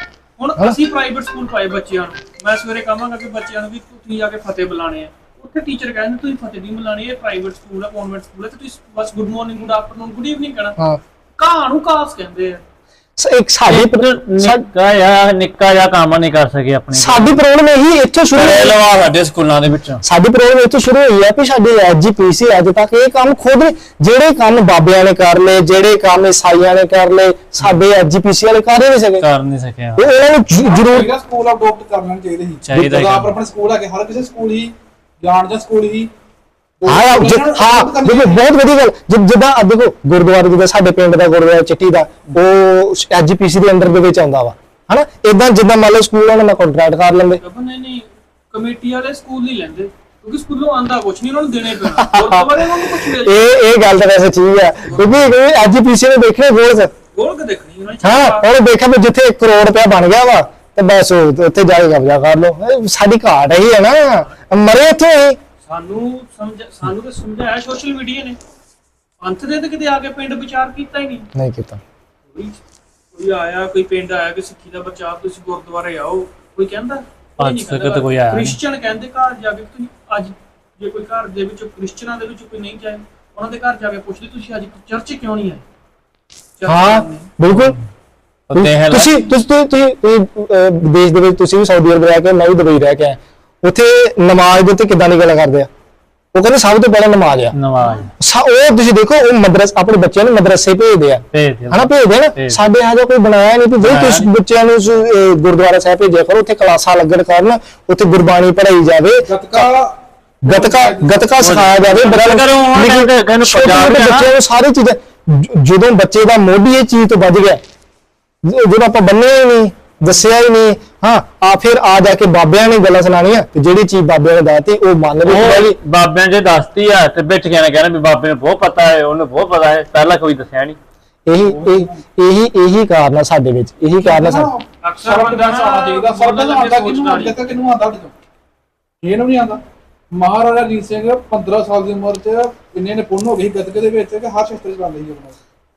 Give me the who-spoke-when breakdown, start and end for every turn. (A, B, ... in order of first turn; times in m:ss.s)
0:00.4-0:10.8 A
0:11.4-0:12.6 A
0:13.2-0:14.6 B
0:13.6-0:17.4 C
0:16.9-0:19.1 B
0:18.3-0:20.0 C
0:20.0-0:29.2 B
0:29.2-0:30.1 C
0:30.0-0:31.1 B
0:30.5-0:36.1 D
0:32.6-0:33.3 C
0:36.8-0:38.4 D
0:36.9-0:47.4 B
0:47.4-0:53.5 A
0:52.0-0:56.9 B
0:57.1-0:58.4 A
0:58.0-1:05.4 B
1:05.6-1:08.4 A
1:09.2-1:11.3 A
1:11.3-1:11.8 B
1:12.3-1:12.6 A
1:13.1-1:25.6 A
1:17.4-1:18.6 C
1:26.6-1:27.3 A
1:26.7-1:27.8 B
1:27.5-1:27.8 C
1:28.5-1:29.3 C
1:28.5-1:35.7 B
1:36.3-1:37.6 B
1:37.5-1:38.1 C
1:38.2-1:49.7 B
1:41.3-1:42.6 C
1:43.8-1:44.3 C
1:49.2-1:51.5 D
1:50.4-1:57.6 B
1:51.4-1:54.3 C
1:58.4-2:05.8 B
2:05.2-2:10.8 C
2:11.2-2:14.5 B
2:11.4-2:11.9 D
2:14.0-2:18.1 D
2:14.8-2:17.6 A
2:19.0-2:25.3 D